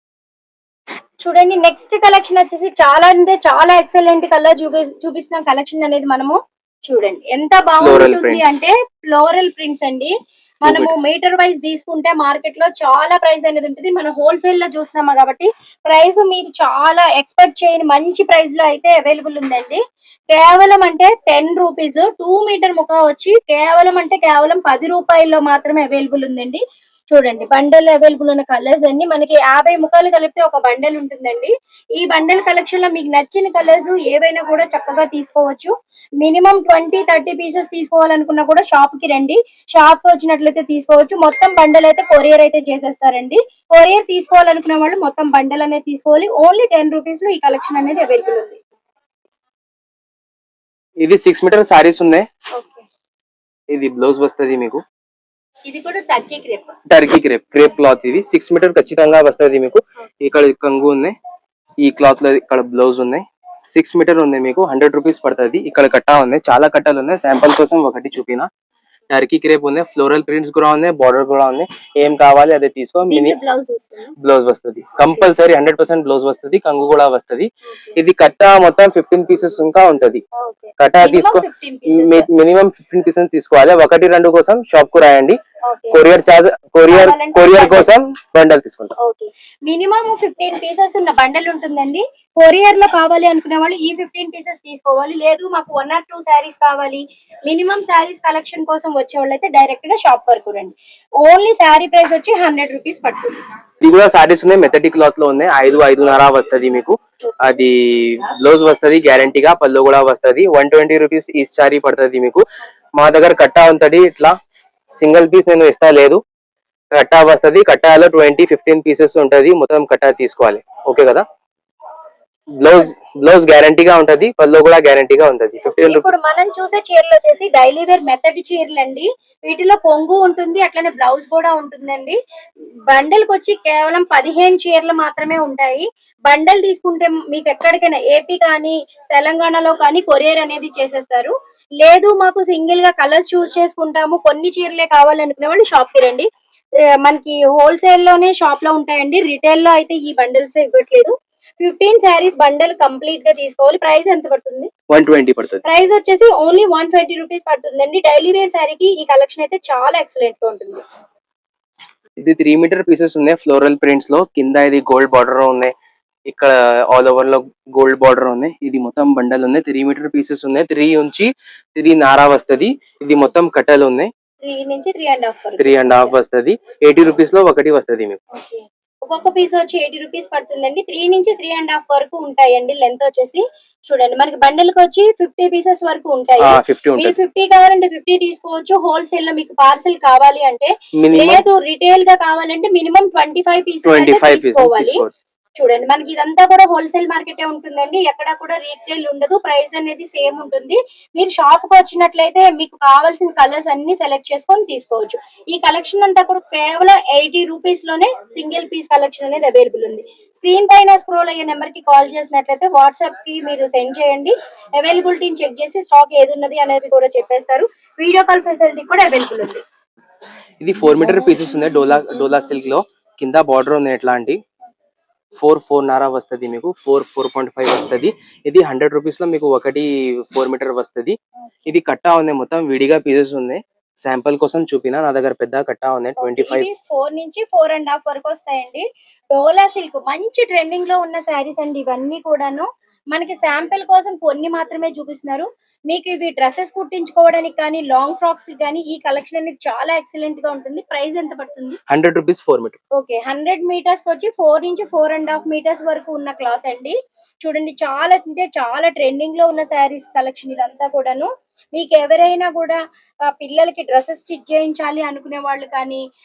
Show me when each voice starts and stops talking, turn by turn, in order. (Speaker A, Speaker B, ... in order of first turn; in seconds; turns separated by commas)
Speaker A: 1.2-48.6, Speaker B: 7.8-8.5, Speaker B: 10.7-10.9, Speaker B: 51.0-52.2, Speaker A: 52.5-52.9, Speaker B: 53.7-54.8, Speaker A: 55.7-56.7, Speaker B: 56.9-61.1, Speaker B: 61.8-68.5, Speaker B: 69.1-73.3, Speaker A: 73.1-74.1, Speaker B: 74.2-80.2, Speaker A: 77.7-78.0, Speaker A: 80.4-82.3, Speaker B: 80.8-85.4, Speaker A: 85.6-86.0, Speaker B: 85.9-88.9, Speaker A: 86.9-87.9, Speaker A: 89.0-103.4, Speaker B: 103.8-112.4, Speaker B: 113.0-114.3, Speaker B: 114.9-116.2, Speaker B: 116.9-121.2, Speaker B: 122.6-126.0, Speaker A: 125.6-132.2, Speaker A: 132.9-146.3, Speaker A: 147.0-154.7, Speaker B: 154.9-155.6, Speaker A: 155.6-160.8, Speaker B: 162.2-165.7, Speaker B: 166.3-174.1, Speaker A: 174.4-176.2, Speaker B: 175.6-178.2, Speaker A: 178.3-195.0, Speaker B: 186.4-187.2, Speaker B: 191.0-191.4, Speaker B: 193.8-195.1, Speaker A: 195.6-219.6, Speaker B: 220.6-224.4, Speaker B: 225.4-236.7, Speaker A: 236.2-251.8, Speaker B: 251.9-252.8, Speaker A: 252.9-266.0